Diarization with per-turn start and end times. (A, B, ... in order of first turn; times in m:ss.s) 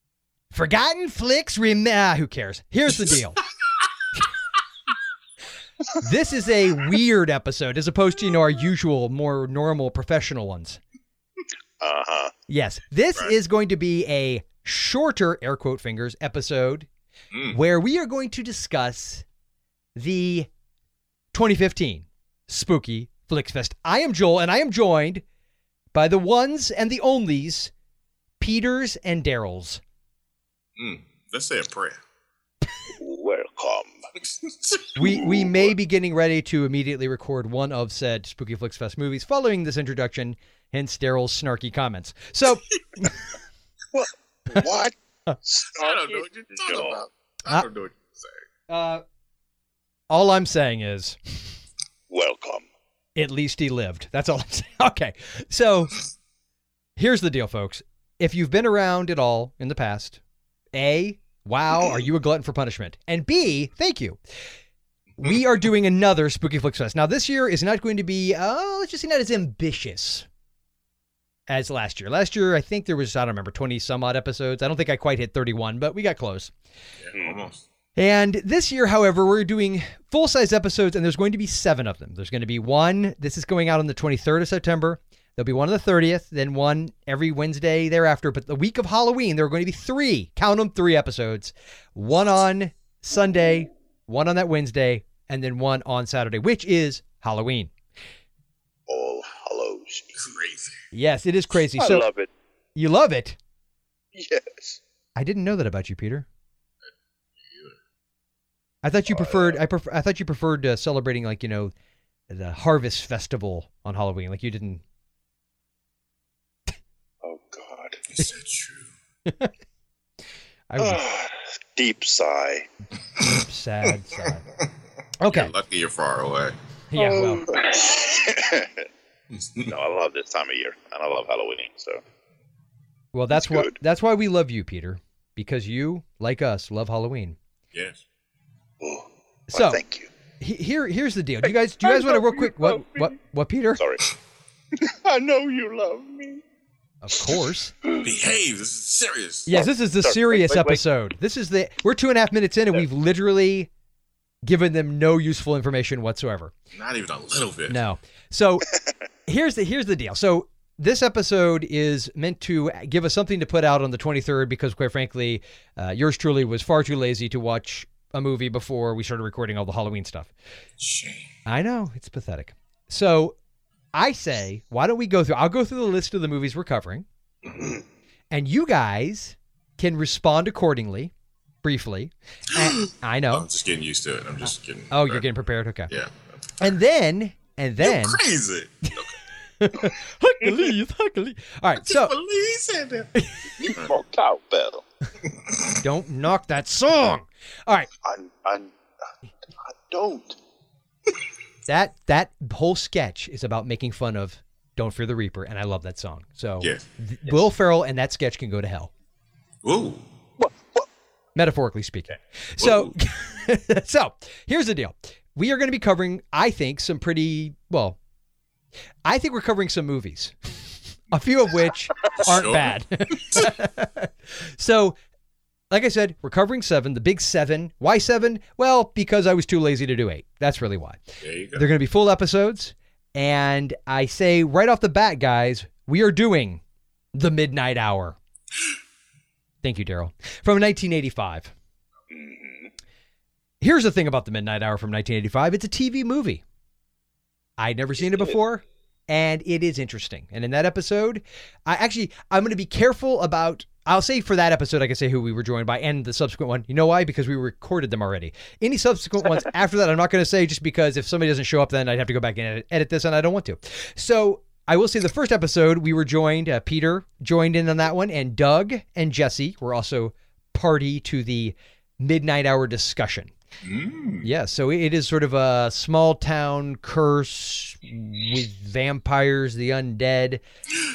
0:00.5-0:03.4 A
0:06.0-0:10.8 A
0:11.8-0:12.3 B
0:12.5-0:16.9 A
0:17.3-0:17.6 C
0:17.5-0:19.2 A
0:20.0-0:20.5 A
0:21.3-0:25.2 A
0:25.9-0:27.7 A
0:28.4-0:29.8 A
0:30.8-0:32.0 C
0:32.9-0:34.0 B
0:34.2-0:34.9 C
0:35.0-0:43.2 A
0:35.0-0:35.7 B
0:43.9-0:47.0 B
0:45.7-0:48.4 C
0:48.7-0:49.0 A
0:50.1-0:51.2 A
0:52.1-0:52.7 B
0:53.2-0:56.0 A
0:57.0-1:00.2 A
1:00.7-1:04.2 A
1:05.2-1:10.3 A
1:11.5-1:16.5 A
1:17.0-1:17.6 C
1:18.0-1:37.7 A
1:38.9-1:40.3 B
1:40.1-1:40.8 C
1:40.9-1:42.1 A
1:41.8-1:42.3 B
1:42.8-1:43.4 A
1:44.1-1:44.8 B
1:45.2-1:46.3 A
1:47.4-1:47.8 C
1:48.8-1:51.7 A
1:49.1-1:49.6 B
1:52.3-1:54.8 A
1:57.2-1:58.0 B
1:58.1-1:58.9 C
1:59.3-1:59.5 A
2:00.7-2:01.1 A
2:00.8-2:02.7 B
2:03.2-2:04.4 A
2:05.2-2:05.5 A
2:05.3-2:06.6 C
2:06.9-2:07.5 A
2:07.0-2:08.8 B
2:09.3-2:09.8 C
2:09.7-2:12.0 B
2:13.1-2:17.4 A
2:13.3-2:13.7 B
2:17.7-2:18.0 C
2:18.8-2:20.1 B
2:19.5-2:19.8 A
2:20.4-2:23.8 A
2:21.4-2:23.1 B
2:23.8-2:24.1 B
2:24.7-2:26.4 B
2:27.0-2:27.7 A
2:28.0-2:29.5 C
2:29.5-2:33.7 A
2:30.0-2:30.8 B
2:34.4-2:36.5 A
2:36.7-2:37.8 C
2:37.7-2:38.7 A
2:39.3-2:50.3 A
2:50.8-2:51.3 C
2:51.5-2:53.4 A
2:53.9-2:57.1 A
2:57.4-2:57.8 C
2:58.3-3:01.1 A
3:01.6-3:03.5 A
3:02.5-3:05.2 C
3:04.9-3:05.9 A
3:05.9-3:06.7 C
3:06.6-3:08.2 A
3:07.8-3:09.2 C
3:09.6-3:12.1 A
3:11.8-3:13.1 C
3:13.2-3:13.7 A
3:13.6-3:14.8 B
3:15.2-3:15.8 C
3:15.8-3:17.9 A
3:18.0-3:18.7 B
3:19.6-3:20.4 B
3:21.7-3:28.9 A
3:29.6-3:30.0 C
3:30.4-3:30.9 B
3:31.4-3:38.0 A
3:32.6-3:33.0 C
3:39.0-3:40.4 A
3:41.1-3:45.0 A
3:42.2-3:43.5 C
3:45.7-3:51.0 A
3:51.2-3:51.6 C
3:51.6-3:56.6 A
3:57.1-3:58.2 A
3:59.6-4:01.5 A
4:02.1-4:02.7 B
4:03.6-4:06.4 A
4:07.6-4:33.3 A
4:08.0-4:08.3 B
4:33.6-4:34.3 C
4:34.2-4:40.4 A